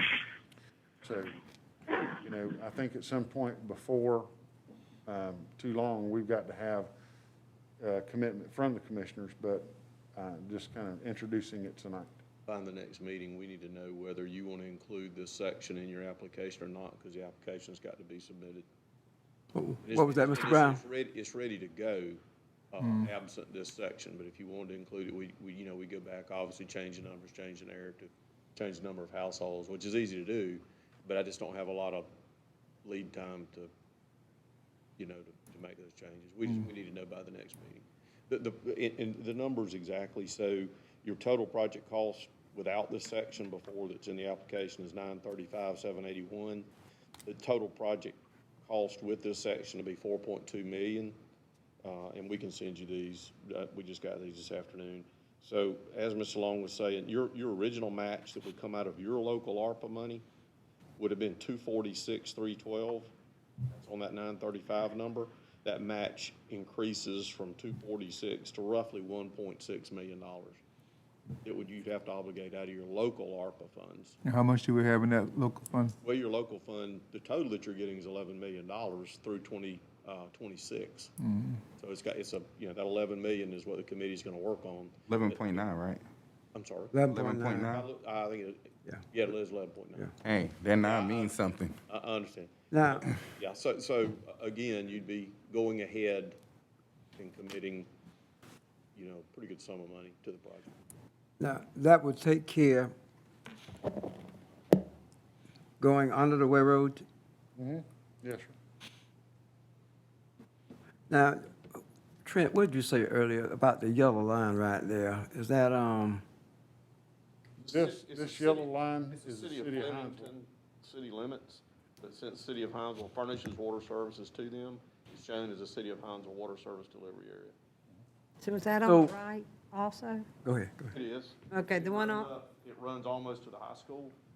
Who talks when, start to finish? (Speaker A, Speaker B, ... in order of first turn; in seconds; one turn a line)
Speaker A: 1.0-1.4
Speaker A: 2.2-4.3
Speaker A: 5.1-6.9
Speaker A: 7.8-12.2
Speaker B: 12.5-18.6
Speaker C: 19.5-20.8
Speaker B: 19.8-22.2
Speaker B: 22.7-32.1
Speaker D: 22.8-23.1
Speaker B: 32.8-33.7
Speaker B: 35.0-46.7
Speaker B: 47.2-51.1
Speaker B: 51.8-60.2
Speaker B: 61.0-63.1
Speaker B: 63.7-70.6
Speaker B: 71.4-74.2
Speaker D: 74.2-75.9
Speaker B: 76.0-81.1
Speaker D: 81.3-81.6
Speaker B: 81.8-85.6
Speaker E: 85.1-86.0
Speaker B: 86.5-87.0
Speaker C: 86.9-87.7
Speaker E: 87.1-87.9
Speaker B: 87.6-90.2
Speaker E: 90.2-91.8
Speaker B: 90.8-96.4
Speaker C: 92.7-93.1
Speaker B: 97.2-97.9
Speaker B: 98.9-100.7
Speaker C: 101.4-102.9
Speaker C: 105.8-107.0
Speaker A: 107.6-108.5
Speaker C: 111.1-111.4
Speaker C: 112.2-116.2
Speaker B: 117.6-127.5
Speaker A: 117.7-120.3
Speaker F: 128.4-130.2
Speaker C: 128.8-129.1
Speaker C: 130.4-130.9
Speaker B: 130.9-134.1
Speaker F: 131.5-132.3